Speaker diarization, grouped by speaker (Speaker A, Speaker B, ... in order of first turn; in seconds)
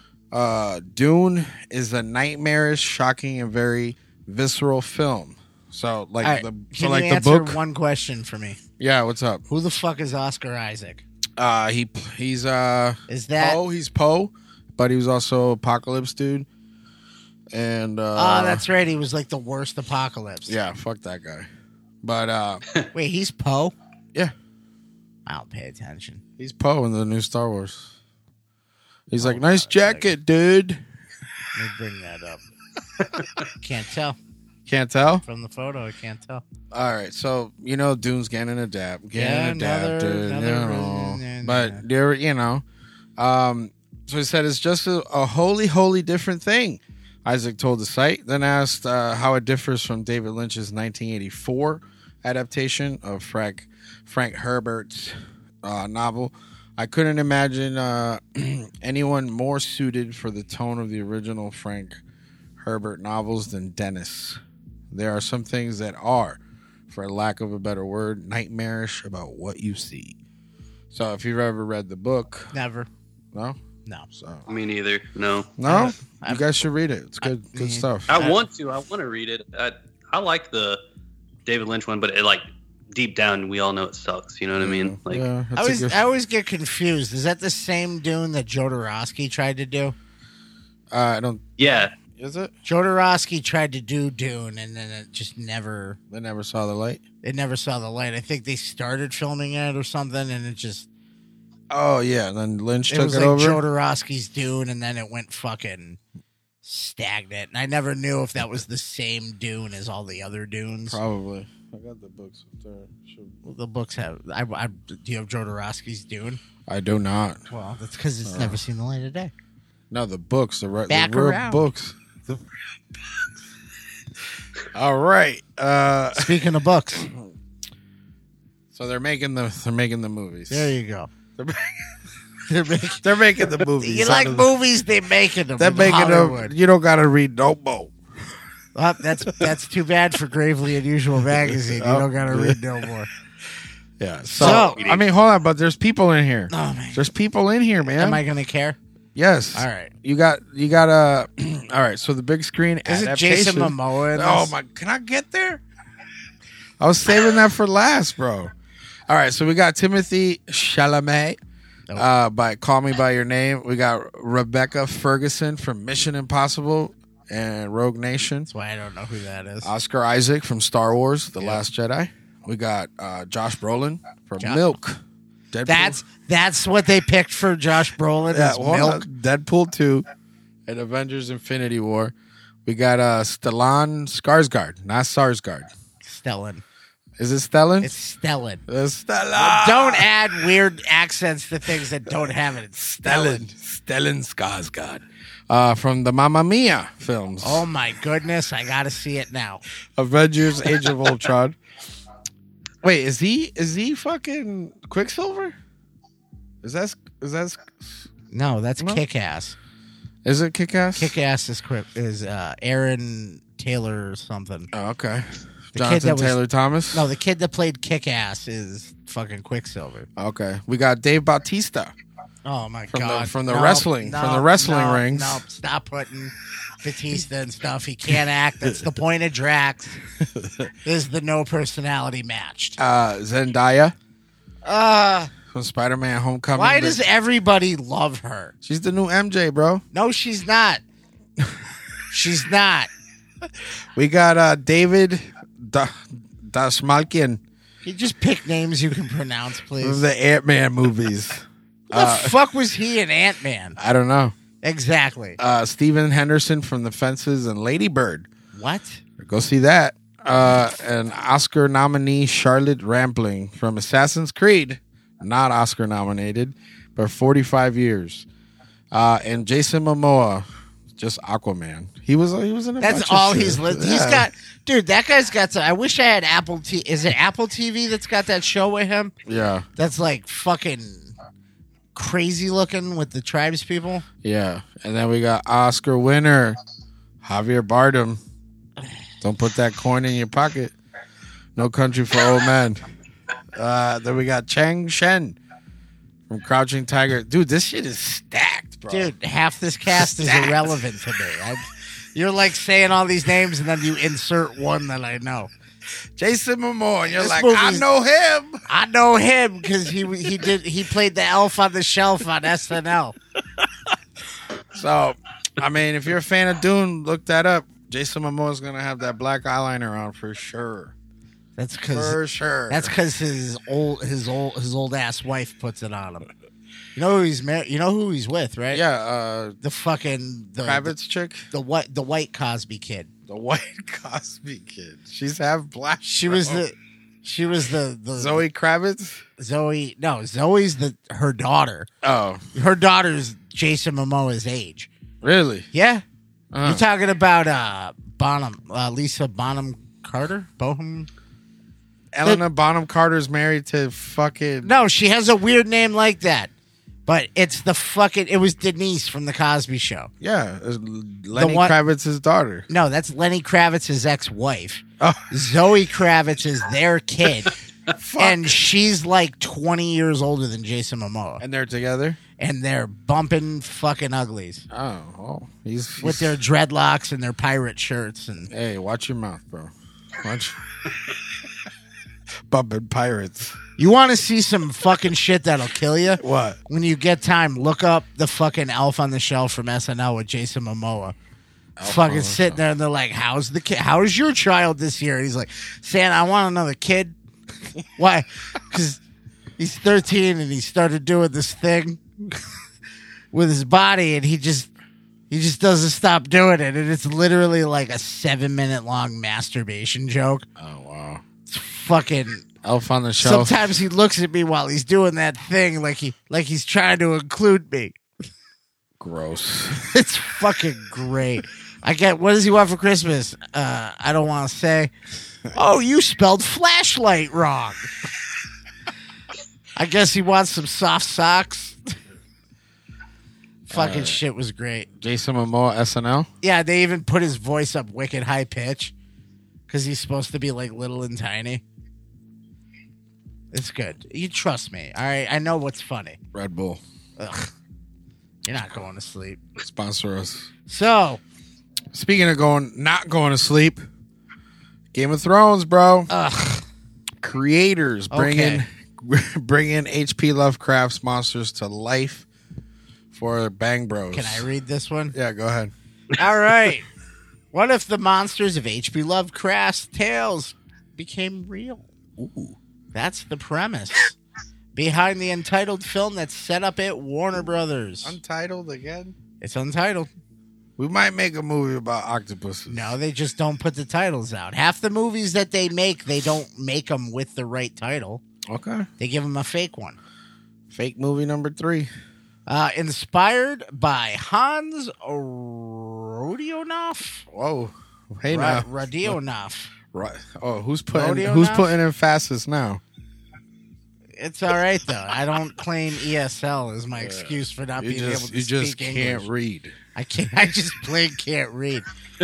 Speaker A: 0.3-7.6, 8.8-9.4, 11.4-16.5, 17.5-18.6, 20.5-21.5, 22.0-22.6, 26.4-27.9, 29.1-30.8, 34.7-35.2, 36.7-42.6, 43.2-62.0, 62.6-70.2, 70.9-72.5, 73.3-73.6, 74.1-74.4, 75.6-78.2, 84.6-86.0, 90.9-91.4, 92.1-92.5, 96.1-97.0, 101.7-103.6, 110.9-113.3, 116.7-117.4, 118.2-118.6, 119.9-122.4, 124.7-126.4, 128.7-130.7, 131.4-131.7, 133.0-134.5, 135.6-137.9, 141.3-142.6, 144.0-148.2, 149.1-155.6, 156.8-158.5, 159.1-161.4, 161.9-168.5, 169.6-175.0, 175.5-176.0, 178.3-180.1, 180.7-182.1, 182.6-185.7, 187.2-187.9, 188.7-190.1, 192.8-197.7, 199.9-201.6, 202.8-205.6, 206.6-208.1, 208.8-209.0, 210.2-211.1, 214.7-217.1, 220.2-221.9, 222.9-225.4, 232.8-233.9, 235.5-237.0, 238.6-239.8, 243.9-247.4, 249.8-252.3, 253.8-254.3, 255.4-258.3, 259.2-268.2, 268.9-274.3, 279.2-279.6, 284.2-286.6, 287.2-288.2, 289.2-290.7, 291.6-292.8, 293.5-295.4, 296.3-299.1, 299.9-300.8, 306.2-308.6, 314.7-320.9, 321.9-322.9, 328.7-329.6, 330.6-331.5, 333.3-336.6, 338.1-339.2, 342.0-342.4, 345.2-345.7, 346.5-346.8, 352.1-354.7, 360.2-362.7, 365.0-365.3, 368.0-368.6, 371.4-372.2, 374.7-376.4, 378.5-380.6, 382.5-383.6, 386.1-386.6, 391.8-392.6, 410.6-411.2, 412.6-413.6, 419.0-419.9, 433.7-434.2, 435.0-436.3, 446.3-446.8, 449.6-450.5, 451.9-453.8, 454.9-456.1, 457.2-462.2, 463.1-464.5, 465.1-465.7, 472.2-472.6, 478.0-479.1, 480.8-482.9, 488.5-488.9, 490.7-491.9, 497.3-499.2, 499.9-502.8, 506.9-509.8
Speaker B: 6.2-8.6, 9.5-11.0, 13.1-13.6, 18.1-20.6, 22.9-23.7, 25.2-26.2, 29.2-30.1, 31.5-32.4, 33.6-34.2, 35.2-36.4, 39.1-41.8, 72.5-72.9, 75.6-76.5, 77.2-78.4, 85.5-89.9, 92.6-96.0, 97.2-100.9, 102.9-106.0, 106.6-111.0, 113.4-116.4, 117.5-119.3, 120.9-121.6, 126.1-127.1, 130.5-131.1, 132.5-136.5, 138.7-143.1, 144.3-144.8, 146.5-147.1, 148.0-148.8, 149.5-149.9, 152.8-154.5, 168.5-169.7, 174.4-174.8, 175.7-179.0, 186.0-186.6, 187.8-188.6, 189.3-193.5, 197.4-199.6, 208.3-209.6, 210.9-214.7, 215.7-216.4, 216.9-220.1, 222.4-230.0, 230.8-232.8, 234.6-235.3, 236.5-238.5, 239.9-240.8, 242.1-242.9, 247.8-250.0, 251.9-253.8, 254.6-255.4, 258.5-259.0, 272.8-279.1, 279.8-281.1, 281.9-284.0, 298.9-305.5, 307.1-307.9, 308.7-313.1, 321.6-326.3, 326.9-328.8, 329.6-330.9, 331.5-333.1, 336.0-338.4, 339.4-341.9, 342.5-344.9, 345.7-346.0, 346.6-351.1, 354.6-356.5, 357.1-360.1, 361.3-361.7, 362.7-367.5, 368.2-371.4, 372.4-374.6, 376.0-378.5, 383.8-391.1, 391.8-397.1, 398.0-399.0, 399.6-402.4, 403.3-404.7, 405.3-410.4, 411.5-412.5, 413.2-417.9, 419.8-424.9, 425.5-427.9, 429.8-431.9, 433.7-434.9, 436.4-438.9, 439.7-441.6, 443.5-446.2, 447.2-447.5, 448.4-449.4, 450.7-451.2, 456.1-456.6, 458.1-458.6, 464.1-465.1, 466.1-466.9, 467.5-471.9, 472.9-474.1, 474.7-478.2, 479.4-480.1, 482.7-488.2, 489.0-490.0, 492.5-497.3, 498.3-499.7, 500.9-501.7, 504.2-509.3, 509.9-511.8
Speaker C: 74.5-75.5, 78.1-80.8, 81.5-85.2, 91.6-91.9, 144.4-145.0